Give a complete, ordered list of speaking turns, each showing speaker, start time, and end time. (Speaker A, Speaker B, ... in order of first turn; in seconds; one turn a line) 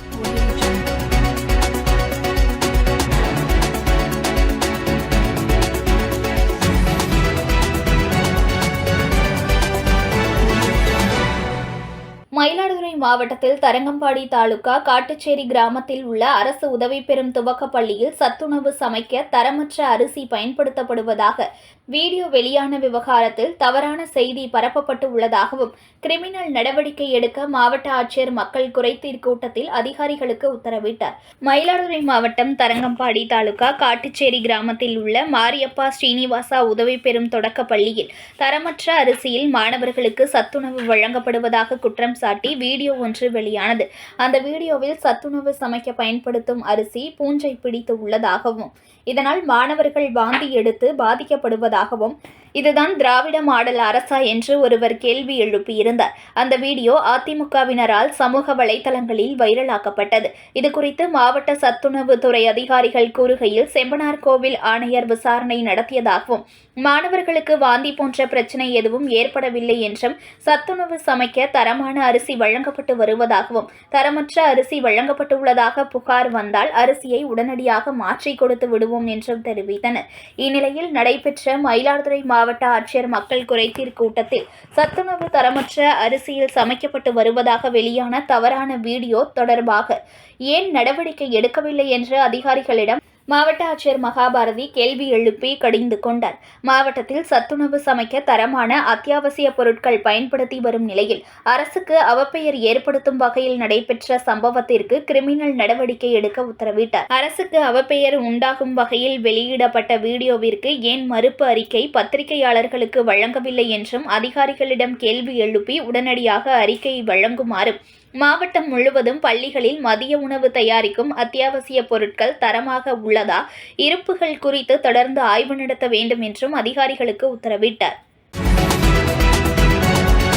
Speaker A: 12.3-90.0
Speaker A: 90.5-127.9